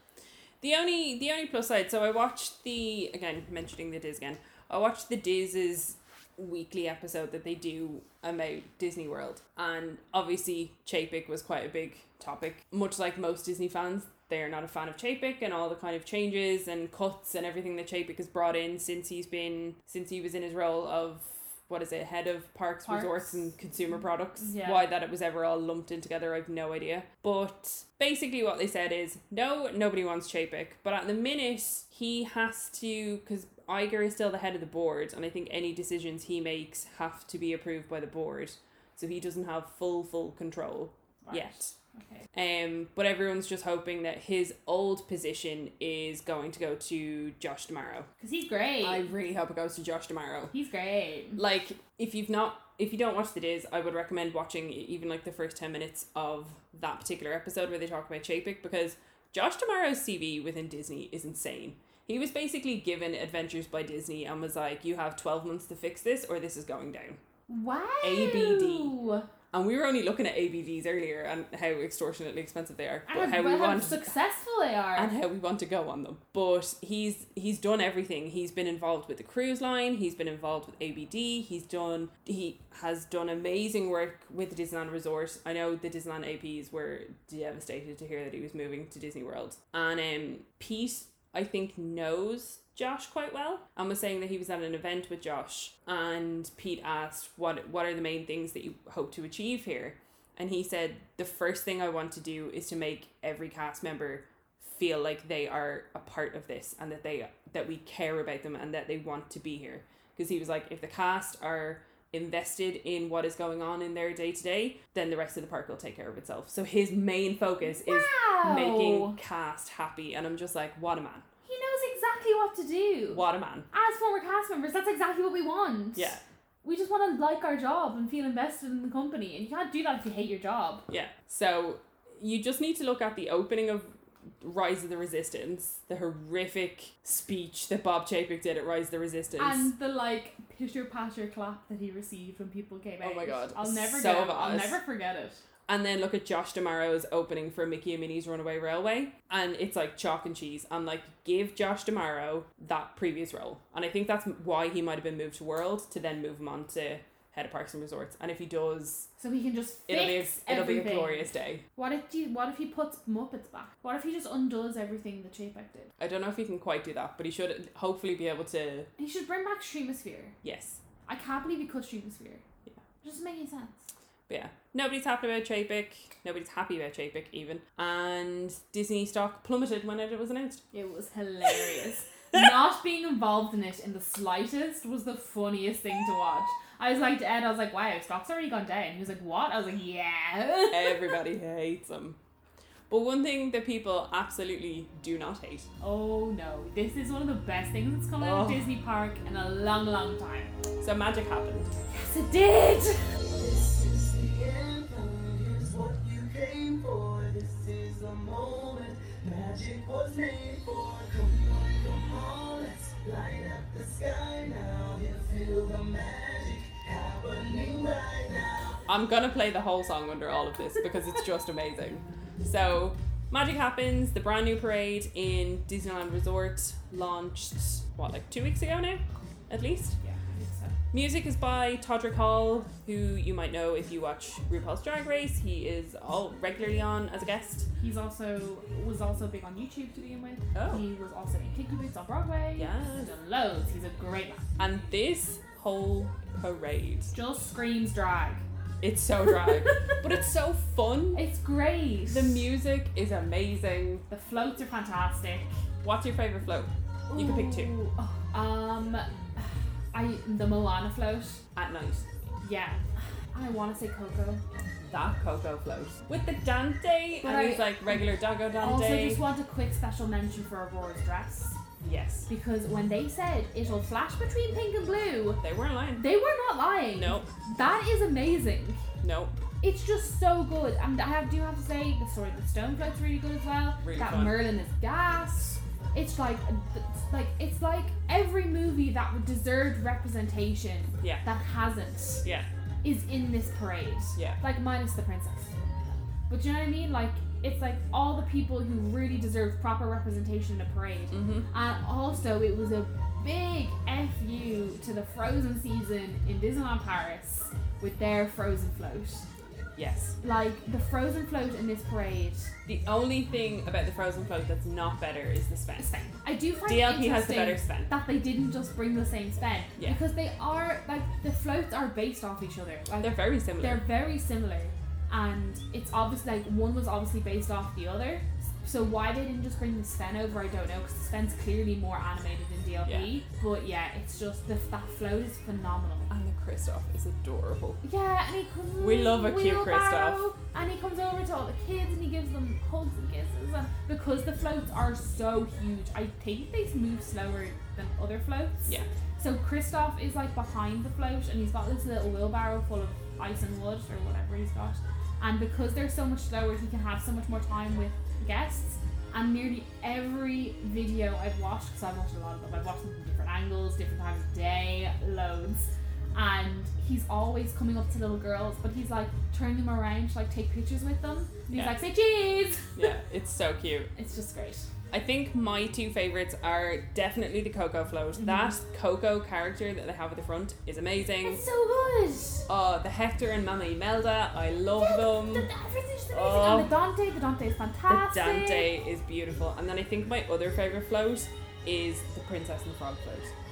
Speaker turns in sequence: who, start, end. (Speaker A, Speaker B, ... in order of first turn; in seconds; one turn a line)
Speaker A: 0.6-41.7
Speaker B: 22.9-23.4
Speaker B: 24.4-24.8
Speaker B: 41.2-42.3
Speaker A: 42.3-48.1
Speaker B: 48.2-49.0
Speaker A: 48.8-50.5
Speaker B: 50.5-51.4
Speaker A: 51.4-67.2
Speaker B: 67.5-69.3
Speaker A: 68.0-69.0
Speaker A: 69.5-74.1
Speaker B: 73.1-75.1
Speaker A: 75.0-121.3
Speaker B: 117.7-119.2
Speaker B: 121.5-130.8
Speaker A: 123.1-123.7
Speaker A: 126.0-126.2
Speaker A: 130.9-139.7
Speaker B: 139.4-145.4
Speaker A: 143.0-144.8
Speaker A: 145.7-159.1
Speaker B: 159.2-165.9
Speaker A: 159.9-161.6
Speaker A: 166.0-168.9
Speaker B: 169.0-170.4
Speaker A: 170.4-170.8
Speaker B: 171.1-172.4
Speaker B: 173.0-173.9
Speaker A: 174.3-180.6
Speaker B: 180.7-191.2
Speaker A: 190.7-192.2
Speaker A: 192.9-195.7
Speaker B: 195.8-200.5
Speaker A: 198.2-198.7
Speaker A: 200.8-201.8
Speaker B: 201.9-203.1
Speaker C: 203.3-218.8
Speaker A: 218.9-230.0
Speaker B: 230.0-230.8
Speaker A: 230.9-237.7
Speaker B: 237.8-244.5
Speaker A: 240.5-240.8
Speaker A: 242.6-243.1
Speaker A: 244.6-247.1
Speaker B: 247.1-248.4
Speaker A: 248.8-251.2
Speaker B: 251.1-252.5
Speaker A: 252.1-254.1
Speaker B: 254.1-255.5
Speaker A: 255.8-257.8
Speaker B: 257.1-261.4
Speaker A: 261.6-262.1
Speaker B: 262.4-264.4
Speaker A: 264.9-269.2
Speaker B: 267.2-268.0
Speaker B: 268.6-271.6
Speaker A: 271.8-272.3
Speaker B: 272.3-275.4
Speaker A: 275.4-276.1
Speaker B: 276.0-278.8
Speaker A: 276.9-277.3
Speaker A: 279.0-279.4
Speaker B: 279.6-292.2
Speaker A: 283.8-284.4
Speaker A: 292.2-292.5
Speaker B: 292.8-295.6
Speaker A: 294.1-294.4
Speaker B: 296.3-309.3
Speaker A: 301.1-301.5
Speaker A: 309.8-310.2
Speaker B: 310.2-312.5
Speaker A: 312.7-315.9
Speaker B: 315.8-336.1
Speaker A: 316.7-317.9
Speaker A: 323.0-323.8
Speaker A: 332.9-333.1
Speaker A: 336.1-337.8
Speaker B: 337.8-372.9
Speaker A: 338.8-340.3
Speaker A: 371.5-371.8
Speaker A: 372.8-373.9
Speaker B: 373.9-374.7
Speaker A: 374.9-381.4
Speaker B: 378.2-378.6
Speaker B: 381.2-382.5
Speaker A: 382.5-385.5
Speaker B: 384.8-388.7
Speaker A: 386.1-386.7
Speaker A: 387.9-393.3